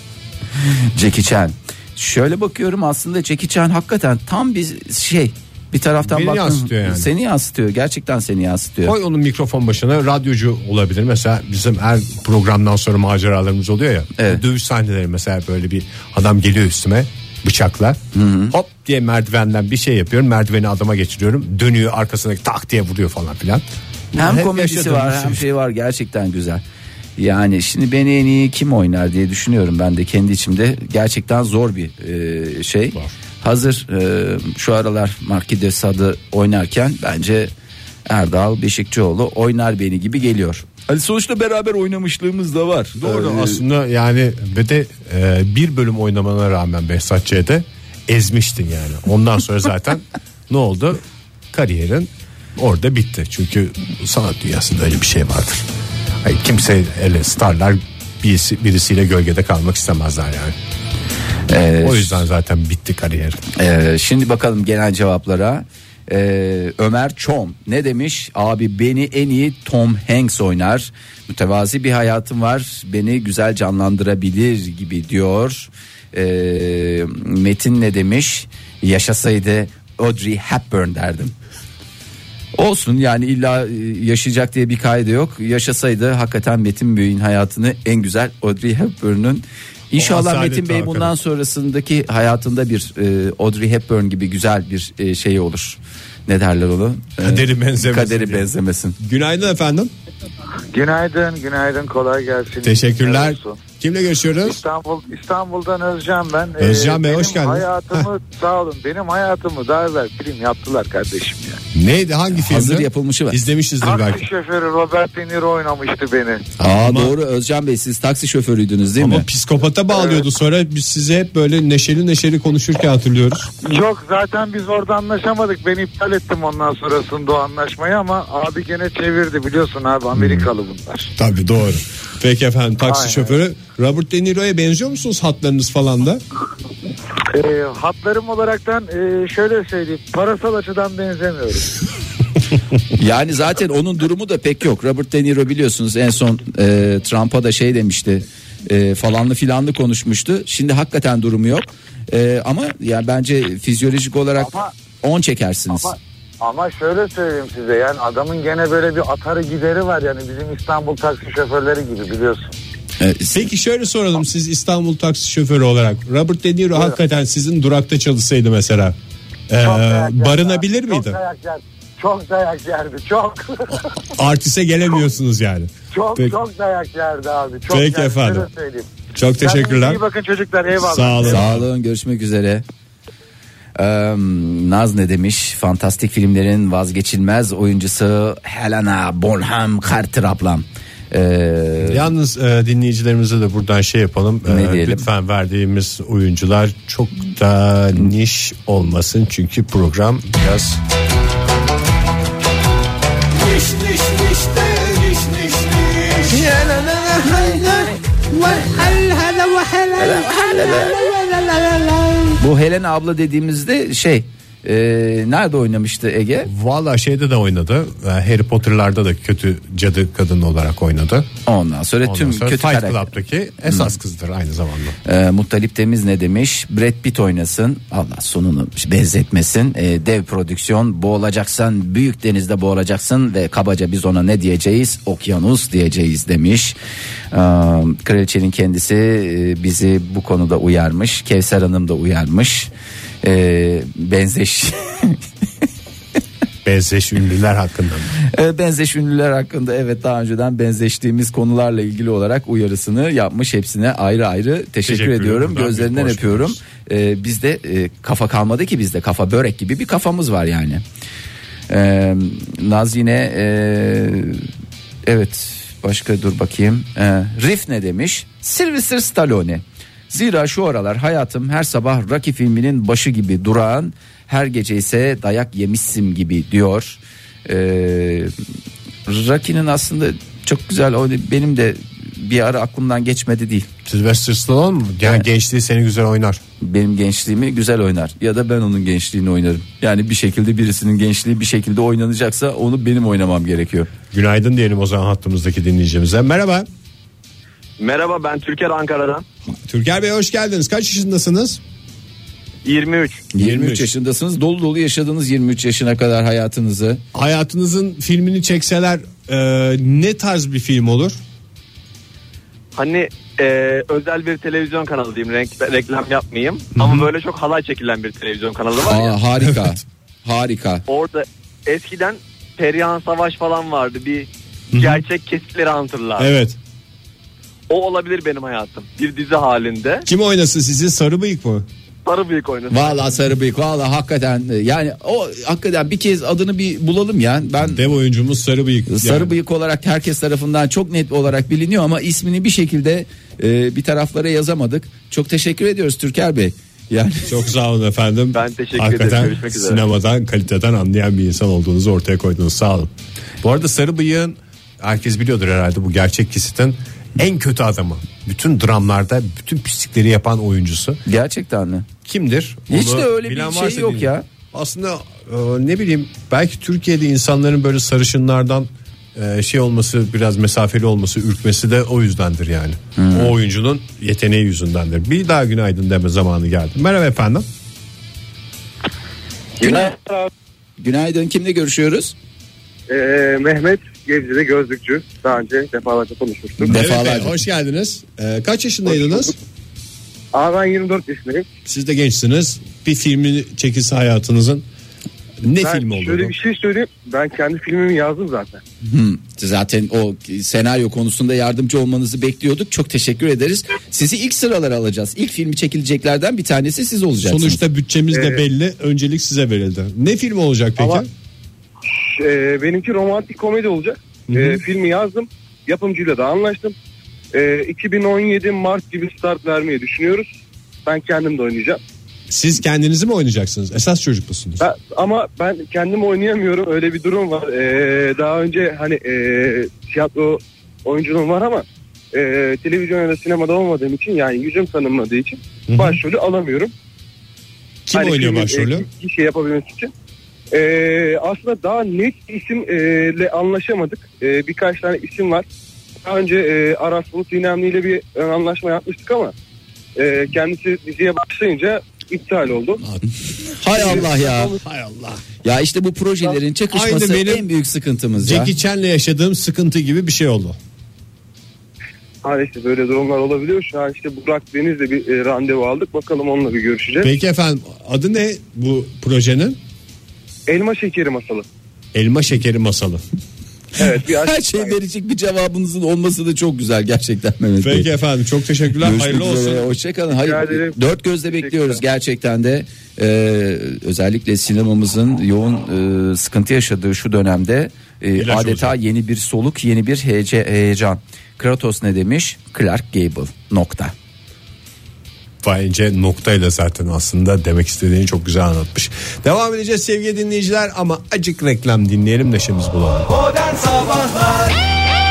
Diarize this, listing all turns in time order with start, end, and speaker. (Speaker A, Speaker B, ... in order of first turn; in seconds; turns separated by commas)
Speaker A: 0.6-9.0, Speaker B: 6.0-7.1, Speaker B: 8.8-25.4, Speaker A: 14.2-14.4, Speaker A: 18.1-18.5, Speaker A: 24.1-26.6, Speaker A: 27.2-37.5, Speaker A: 38.1-43.6, Speaker B: 43.0-51.0, Speaker B: 51.5-55.6, Speaker B: 56.2-60.5, Speaker A: 61.5-62.2, Speaker B: 61.8-63.4, Speaker A: 63.5-81.3, Speaker A: 82.5-99.0, Speaker B: 90.0-91.2, Speaker B: 97.2-98.5, Speaker B: 99.0-99.9, Speaker C: 100.7-103.6, Speaker B: 102.6-104.6, Speaker C: 104.4-111.6, Speaker B: 106.6-108.1, Speaker B: 111.7-114.3, Speaker A: 112.3-113.4, Speaker C: 113.8-116.5, Speaker B: 116.6-117.2, Speaker A: 116.6-119.3, Speaker B: 119.0-123.5, Speaker C: 119.9-120.2, Speaker C: 123.6-131.1, Speaker B: 130.1-130.5, Speaker B: 131.2-136.2, Speaker C: 132.8-133.4, Speaker C: 137.3-141.7, Speaker A: 143.0-155.9, Speaker C: 154.4-154.7, Speaker C: 155.7-162.5, Speaker A: 163.0-163.4, Speaker B: 163.3-169.0, Speaker B: 169.5-171.2, Speaker C: 169.6-173.9, Speaker B: 174.2-176.4, Speaker C: 175.9-178.9, Speaker B: 177.7-178.5, Speaker B: 179.2-180.0, Speaker C: 179.4-181.4, Speaker B: 180.8-181.7, Speaker A: 181.2-182.6, Speaker A: 183.8-192.1, Speaker B: 191.8-200.4, Speaker A: 194.5-195.1, Speaker A: 200.4-200.8, Speaker B: 203.4-212.4, Speaker A: 206.3-207.8, Speaker A: 210.0-211.0, Speaker A: 212.4-216.5, Speaker B: 216.4-221.3, Speaker A: 221.5-223.1, Speaker B: 222.1-225.0, Speaker A: 223.6-223.9, Speaker A: 225.1-236.8, Speaker A: 237.3-242.7, Speaker A: 243.2-245.2, Speaker B: 246.7-248.1, Speaker A: 248.2-260.8, Speaker B: 254.8-256.6, Speaker A: 261.7-264.5, Speaker A: 265.1-278.3, Speaker A: 279.1-283.7, Speaker B: 283.9-286.4, Speaker A: 286.6-293.9, Speaker B: 294.1-296.7, Speaker D: 297.8-299.2, Speaker B: 299.5-301.6, Speaker D: 302.6-303.3, Speaker A: 303.3-307.0, Speaker B: 303.4-303.9, Speaker B: 307.1-311.2, Speaker D: 312.8-319.2, Speaker B: 316.8-317.1, Speaker A: 318.8-320.8, Speaker B: 319.4-319.8, Speaker D: 320.9-326.3, Speaker B: 324.7-325.1, Speaker B: 326.2-326.6, Speaker D: 327.7-330.1, Speaker B: 330.1-331.7, Speaker D: 332.1-333.2, Speaker A: 332.7-337.8, Speaker B: 337.6-339.4, Speaker A: 338.9-347.4, Speaker B: 347.3-361.0, Speaker D: 348.3-349.9, Speaker A: 361.1-361.9, Speaker B: 362.1-377.5, Speaker A: 362.7-364.3, Speaker A: 373.0-373.3, Speaker E: 379.6-380.3, Speaker A: 380.8-382.1, Speaker E: 382.9-386.8, Speaker A: 386.6-387.4, Speaker B: 386.6-389.4, Speaker E: 388.9-389.3, Speaker E: 390.3-391.5, Speaker B: 391.7-394.7, Speaker B: 395.4-396.4, Speaker E: 395.6-398.6, Speaker A: 398.8-407.6, Speaker B: 407.2-411.1, Speaker E: 408.1-408.4, Speaker E: 410.8-411.0, Speaker E: 412.0-416.8, Speaker B: 414.3-414.6, Speaker E: 417.3-420.3, Speaker E: 420.9-421.8, Speaker B: 422.3-424.6, Speaker E: 424.6-436.7, Speaker B: 435.7-436.0, Speaker B: 437.9-438.9, Speaker E: 437.9-439.9, Speaker E: 440.5-445.5, Speaker E: 446.0-449.3, Speaker E: 450.0-452.8, Speaker A: 453.5-454.6, Speaker B: 453.7-455.2, Speaker E: 453.7-454.6, Speaker A: 455.4-458.5, Speaker B: 456.7-457.5, Speaker B: 458.2-460.6, Speaker E: 462.2-467.1, Speaker B: 467.0-469.6, Speaker E: 470.5-471.5, Speaker B: 471.9-473.0, Speaker E: 473.8-474.8, Speaker A: 474.1-477.9, Speaker B: 477.6-479.8, Speaker A: 478.8-493.9, Speaker E: 480.1-481.8, Speaker B: 488.2-488.8, Speaker B: 495.4-503.1